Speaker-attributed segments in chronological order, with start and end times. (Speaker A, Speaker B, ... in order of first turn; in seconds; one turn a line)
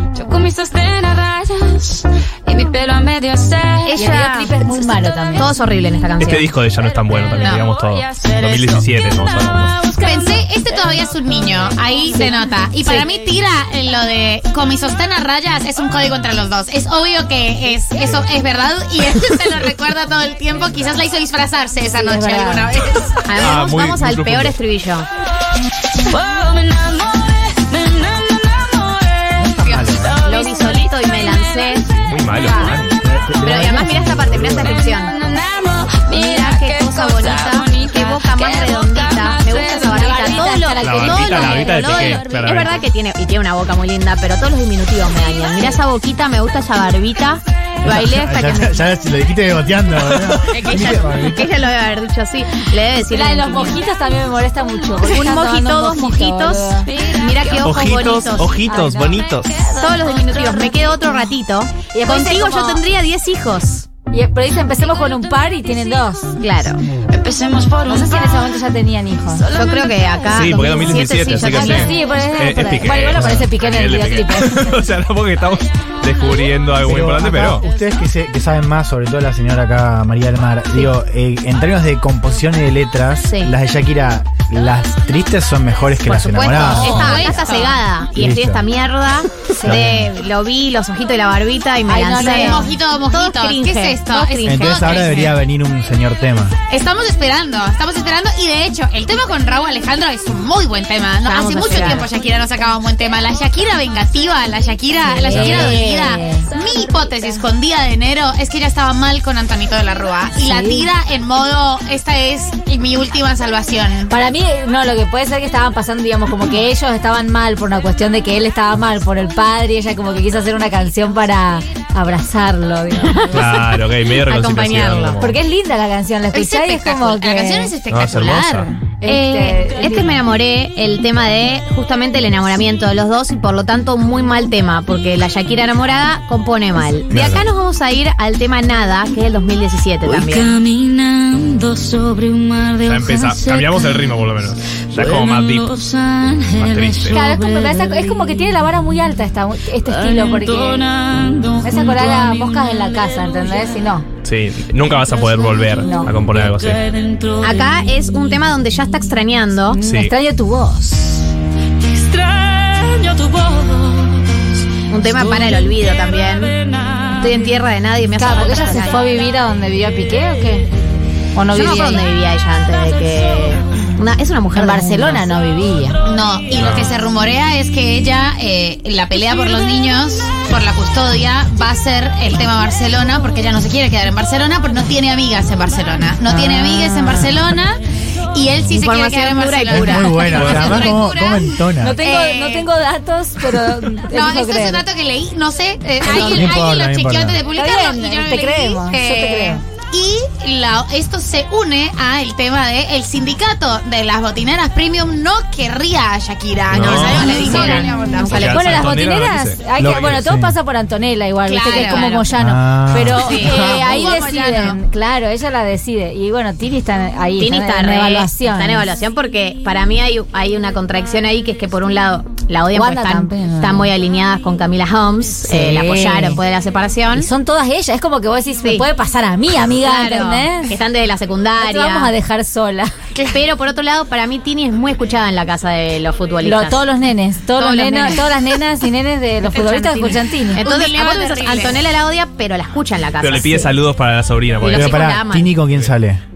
Speaker A: 0.1-3.9
Speaker B: 3.9-4.5
Speaker C: 3.9-4.5
Speaker D: 4.0-5.5
Speaker C: 5.4-6.5
Speaker E: 6.2-9.8
Speaker B: 7.4-7.7
Speaker A: 7.8-10.4
Speaker B: 9.9-23.4
Speaker D: 22.0-22.7
Speaker C: 23.3-25.1
Speaker E: 23.4-24.6
Speaker A: 26.1-29.2
Speaker F: 29.4-30.2
Speaker B: 29.6-30.0
Speaker C: 30.2-31.9
Speaker E: 32.0-33.0
Speaker F: 33.0-34.8
Speaker C: 33.4-35.1
Speaker A: 35.0-40.6
Speaker C: 36.1-48.8
Speaker D: 39.9-42.2
Speaker E: 40.8-42.8
Speaker F: 47.8-51.5
Speaker C: 50.0-53.8
Speaker D: 53.1-56.9
Speaker C: 55.0-58.5
Speaker A: 56.9-57.7
Speaker E: 57.6-59.7
Speaker D: 58.5-59.2
Speaker A: 59.5-61.0
Speaker C: 59.8-63.9
Speaker D: 61.9-62.8
Speaker D: 64.1-66.3
Speaker C: 66.4-66.8
Speaker A: 67.1-68.1
Speaker D: 67.9-69.4
Speaker A: 69.5-70.1
Speaker C: 69.5-72.0
Speaker E: 70.3-77.7
Speaker D: 71.5-74.7
Speaker F: 76.8-87.3
Speaker C: 83.2-83.5
Speaker C: 86.1-95.0
Speaker B: 86.4-87.8
Speaker F: 88.1-88.7
Speaker F: 89.7-90.1
Speaker D: 91.9-92.7
Speaker B: 92.2-95.4
Speaker F: 94.5-96.5
Speaker B: 96.7-114.1
Speaker C: 101.2-102.1
Speaker D: 105.0-106.5
Speaker E: 105.4-105.8
Speaker D: 110.4-110.9
Speaker D: 114.1-123.4
Speaker C: 123.1-125.2
Speaker E: 123.3-125.3
Speaker D: 125.2-127.7
Speaker B: 126.3-128.7
Speaker E: 127.9-128.7
Speaker D: 128.8-130.2
Speaker C: 129.1-140.5
Speaker E: 137.1-137.4
Speaker A: 140.1-143.9
Speaker E: 142.8-145.8
Speaker A: 145.2-147.7
Speaker E: 146.5-147.2
Speaker D: 147.1-150.9
Speaker A: 150.2-152.9
Speaker D: 151.6-154.1
Speaker E: 154.2-156.8
Speaker D: 155.8-156.1
Speaker A: 156.8-157.6
Speaker C: 157.4-159.8
Speaker D: 159.7-161.2
Speaker E: 159.8-160.1
Speaker A: 161.9-164.2
Speaker C: 164.9-169.1
Speaker D: 168.2-170.7
Speaker D: 171.3-172.1
Speaker C: 171.5-175.3
Speaker D: 174.6-176.0
Speaker B: 176.1-187.8
Speaker E: 176.6-176.9
Speaker D: 186.3-187.3
Speaker B: 188.3-192.7
Speaker C: 188.7-190.9
Speaker F: 189.7-192.0
Speaker E: 190.3-190.8
Speaker D: 191.8-194.8
Speaker B: 194.1-208.7
Speaker F: 196.0-197.4
Speaker D: 196.1-196.5
Speaker D: 197.6-199.6
Speaker E: 206.7-207.5
Speaker C: 206.7-208.9
Speaker D: 207.5-218.9
Speaker E: 208.1-210.2
Speaker F: 209.8-210.6
Speaker B: 211.5-212.3
Speaker C: 211.7-212.1
Speaker F: 212.3-213.3
Speaker B: 213.2-214.8
Speaker C: 213.2-213.6
Speaker C: 217.4-227.3
Speaker D: 222.7-223.9
Speaker D: 225.5-226.4
Speaker D: 227.1-230.8
Speaker C: 228.6-228.9
Speaker C: 229.8-232.1
Speaker D: 231.6-232.9
Speaker C: 233.3-236.8
Speaker D: 236.4-240.6
Speaker C: 237.6-238.6
Speaker C: 239.5-243.7
Speaker B: 240.6-241.8
Speaker E: 243.2-245.1
Speaker C: 244.6-245.6
Speaker F: 244.7-246.2